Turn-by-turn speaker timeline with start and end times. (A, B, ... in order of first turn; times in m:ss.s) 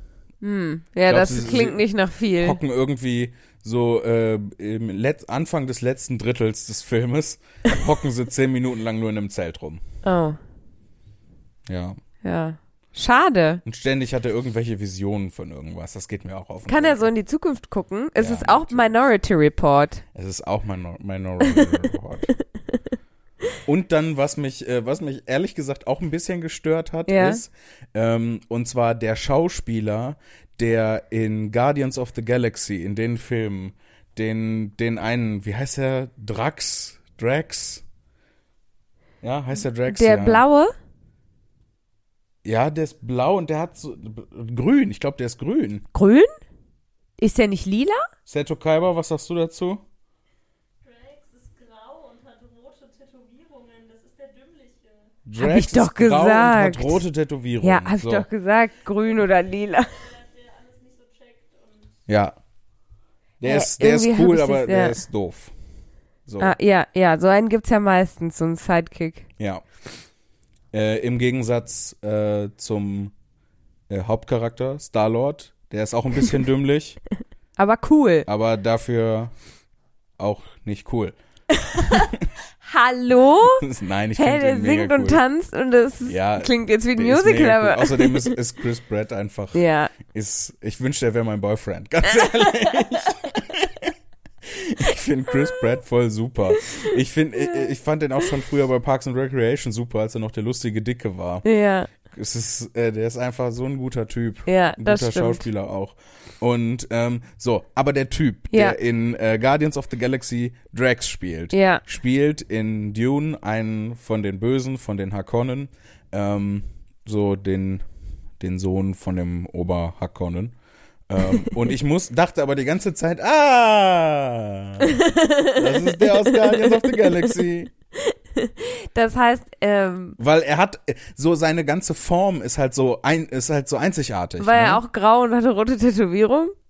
0:00.4-0:02.6 A
0:01.1-0:01.8 B
0:02.4-0:09.8 B
0:10.0-0:10.4 A
0:11.7-0:12.0 B
0:12.2-0:13.6 A
0:13.6-0:17.0 B
0:16.7-0:20.0 A
0:18.2-0:18.9 B
0:20.1-0:22.3 B
0:21.4-0:21.8 A
0:23.6-0:37.8 B
0:27.1-0:27.4 A
0:39.2-0:40.4 B
0:39.9-0:40.7 A
0:42.4-0:45.9 B
0:45.9-0:46.3 A
0:47.2-0:48.1 A
0:48.3-0:49.8 B
0:50.8-0:55.1 C
0:55.3-0:58.3 B
0:55.4-0:57.0 A
0:57.6-1:00.0 A
0:59.1-1:02.0 C
1:02.1-1:02.4 B
1:03.4-1:05.5 B
1:03.5-1:05.0 A
1:06.3-1:06.6 B
1:06.4-1:09.3 A
1:10.7-1:13.1 B
1:13.9-1:17.0 B
1:17.6-1:18.3 A
1:18.3-1:19.3 B
1:20.2-1:21.2 B
1:21.5-1:22.1 A
1:21.8-1:22.3 B
1:22.6-1:23.6 A
1:23.6-1:25.2 B
1:24.2-1:28.4 A
1:26.0-1:33.9 B
1:29.5-1:29.9 A
1:32.1-1:33.1 A
1:34.4-1:41.5 B
1:35.3-1:35.6 A
1:36.6-1:37.7 A
1:41.4-1:41.9 A
1:42.0-1:57.8 B
1:44.5-1:45.5 A
1:48.5-1:48.8 A
1:51.5-1:51.8 A
1:58.4-2:00.6 B
2:01.1-2:07.7 B
2:04.8-2:07.4 A
2:08.0-2:10.2 A
2:10.2-2:14.8 B
2:14.4-2:16.5 A